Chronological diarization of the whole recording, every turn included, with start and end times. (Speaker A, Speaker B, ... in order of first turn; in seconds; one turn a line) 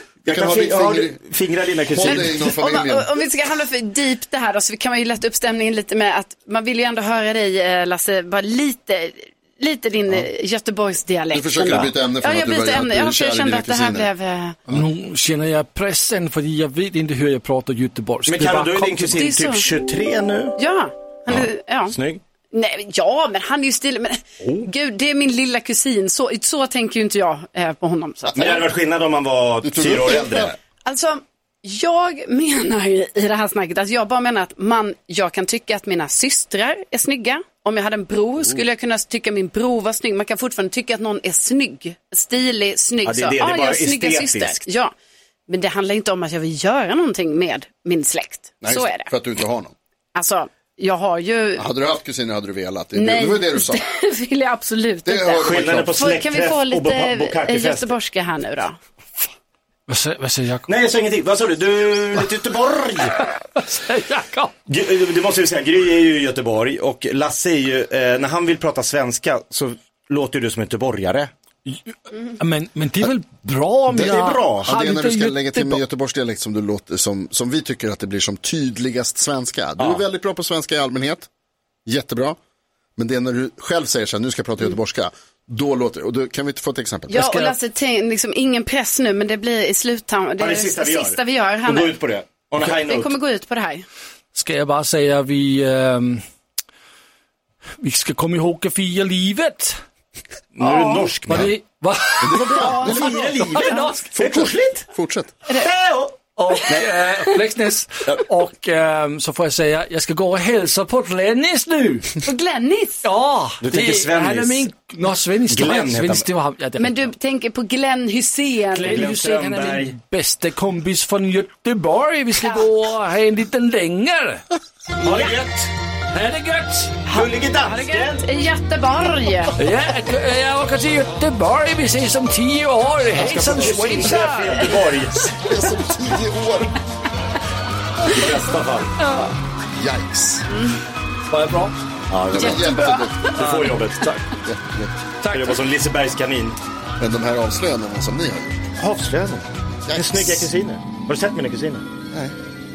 Speaker A: 0.2-2.4
Speaker B: 0.2-1.2
Speaker B: 1.9-3.1
Speaker C: 2.0-14.6
Speaker B: 11.3-14.1
Speaker D: 14.7-19.2
Speaker A: 18.2-20.6
Speaker C: 19.1-19.6
Speaker C: 20.6-21.9
Speaker A: 21.3-22.2
Speaker C: 22.5-28.6
Speaker A: 24.4-24.7
Speaker A: 28.3-30.6
Speaker B: 29.6-30.6
Speaker C: 30.8-44.9
Speaker A: 43.0-44.7
Speaker C: 45.5-49.1
Speaker B: 48.6-49.7
Speaker C: 50.1-51.6
Speaker B: 51.6-53.8
Speaker C: 52.9-58.8
Speaker B: 55.0-56.0
Speaker A: 55.4-57.9
Speaker D: 59.9-60.6
Speaker A: 60.7-63.2
Speaker D: 63.2-64.5
Speaker A: 64.7-71.3
Speaker D: 71.7-75.8
Speaker A: 73.9-74.8
Speaker B: 73.9-81.3
Speaker A: 79.8-80.0
Speaker B: 81.8-82.4
Speaker B: 83.0-87.2
Speaker C: 87.1-92.0
Speaker D: 87.1-87.5
Speaker A: 90.4-93.1
Speaker C: 92.6-93.8
Speaker D: 94.3-96.2
Speaker D: 97.8-99.8
Speaker A: 100.5-101.5
Speaker C: 100.6-101.1
Speaker D: 101.2-104.5
Speaker B: 102.2-103.4
Speaker C: 102.5-102.9
Speaker A: 102.9-104.9
Speaker B: 104.9-105.3
Speaker A: 105.5-106.2
Speaker D: 106.3-112.2
Speaker C: 112.2-113.1
Speaker D: 113.0-117.1
Speaker A: 113.6-114.7
Speaker A: 115.5-116.3
Speaker C: 116.8-119.1
Speaker A: 118.7-119.9
Speaker D: 118.8-124.5
Speaker A: 125.0-125.7
Speaker D: 126.1-127.0
Speaker C: 127.1-129.6
Speaker A: 127.1-128.2
Speaker D: 129.6-134.8
Speaker A: 133.2-135.3
Speaker B: 135.3-136.8
Speaker A: 138.1-138.9
Speaker B: 139.8-140.4
Speaker C: 140.5-140.8
Speaker D: 141.3-141.8
Speaker A: 142.1-142.7
Speaker B: 142.3-143.3
Speaker C: 142.4-143.1
Speaker D: 143.2-144.2
Speaker A: 143.3-144.1
Speaker B: 144.4-144.9
Speaker D: 145.2-145.6
Speaker A: 145.3-146.6
Speaker B: 147.0-148.6
Speaker A: 148.8-151.8
Speaker B: 149.9-150.5